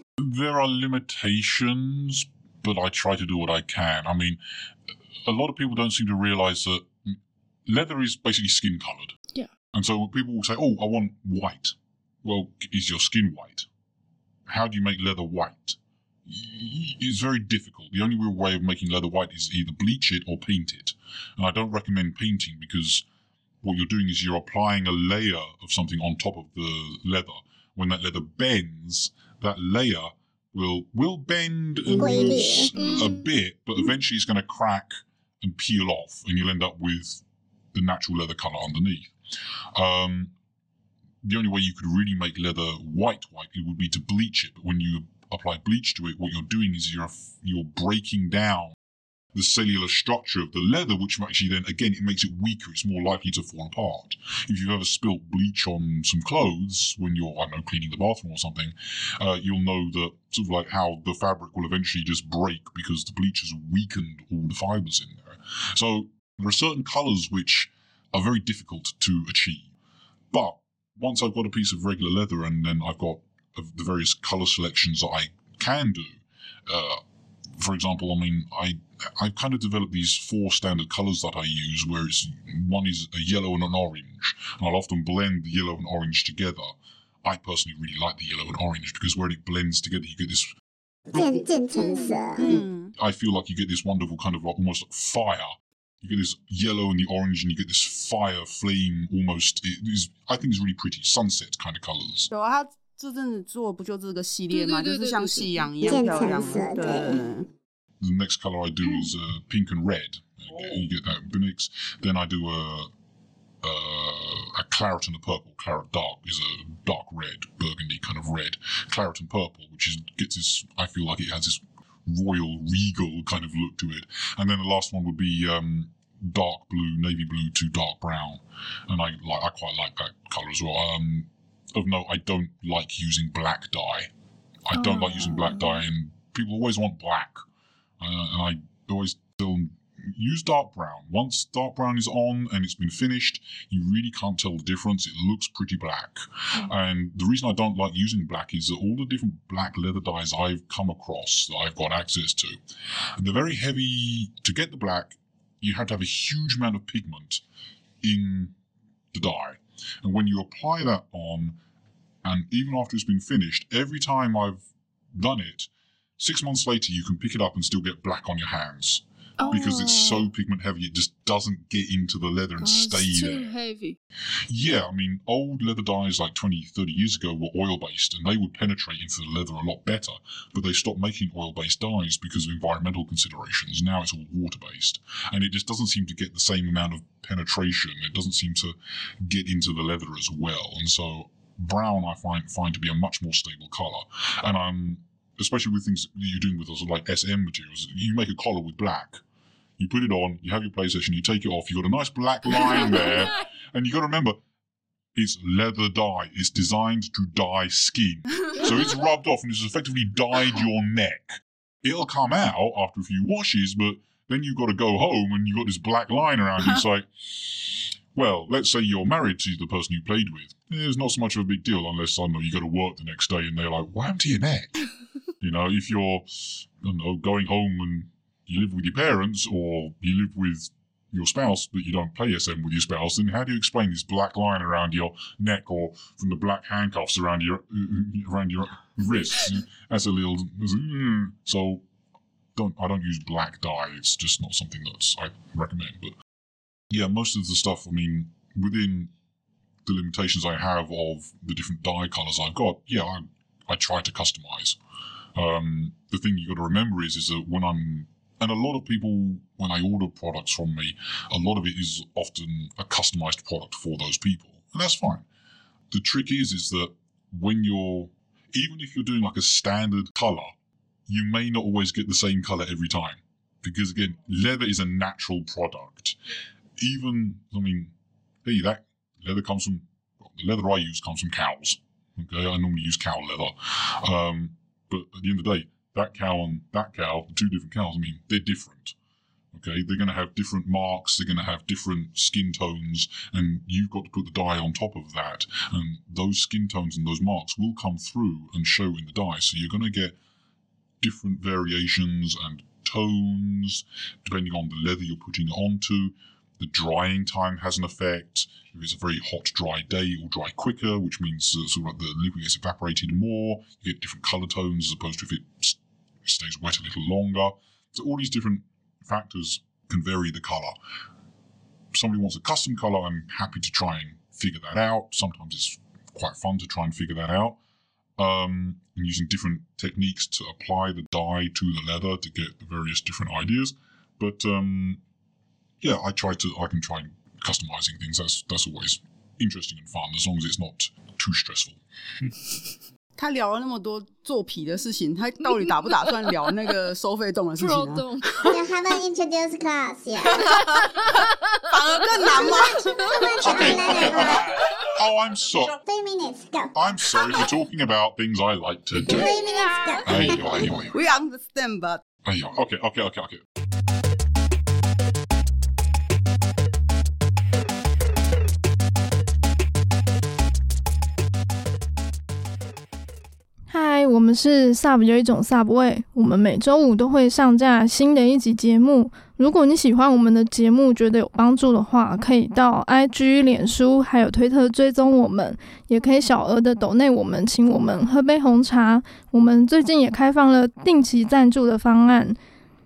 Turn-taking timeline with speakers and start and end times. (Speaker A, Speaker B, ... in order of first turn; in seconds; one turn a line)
Speaker A: 0.2-4.4
Speaker A: 5.3-9.2
Speaker A: 9.7-13.7
Speaker A: 14.5-23.0
Speaker A: 23.6-39.1
Speaker B: 31.9-32.7
Speaker A: 39.7-40.3
Speaker A: 41.2-48.8
Speaker A: 49.3-69.7
Speaker A: 70.3-77.0
Speaker A: 77.6-86.7
Speaker A: 87.2-90.5
Speaker B: 91.1-92.6
Speaker C: 91.9-92.9
Speaker A: 93.0-102.3
Speaker C: 102.3-107.5
Speaker D: 104.5-105.7
Speaker B: 105.8-107.2
Speaker A: 108.0-112.9
Speaker A: 113.6-134.1
Speaker A: 134.7-137.4
Speaker E: 134.8-135.8
Speaker A: 138.0-152.6
Speaker A: 153.2-157.4
Speaker A: 158.0-158.5
Speaker A: 159.1-161.6
Speaker A: 162.2-164.6
Speaker A: 165.2-173.5
Speaker E: 169.4-170.1
Speaker D: 172.6-174.0
Speaker A: 174.5-199.2
Speaker A: 199.8-204.4
Speaker A: 205.2-224.9
Speaker A: 225.4-241.8
Speaker A: 242.6-246.1
Speaker A: 246.9-249.1
Speaker A: 249.9-254.8
Speaker A: 255.3-265.2
Speaker A: 265.9-270.5
Speaker A: 271.1-276.2
Speaker A: 276.8-277.9
Speaker A: 278.4-288.9
Speaker A: 289.5-300.2
Speaker A: 301.0-320.8
Speaker A: 321.9-327.6
Speaker A: 328.2-335.0
Speaker A: 335.8-341.8
Speaker C: 343.2-348.6
Speaker D: 347.6-348.2
Speaker B: 348.5-350.5
Speaker C: 350.3-351.2
Speaker C: 351.7-353.1
Speaker B: 352.3-354.5
Speaker A: 353.4-355.8
Speaker B: 355.8-356.7
Speaker A: 356.7-359.3
Speaker B: 359.1-360.6
Speaker A: 360.0-360.9
Speaker C: 360.2-362.0
Speaker A: 362.2-363.4
Speaker E: 373.7-392.4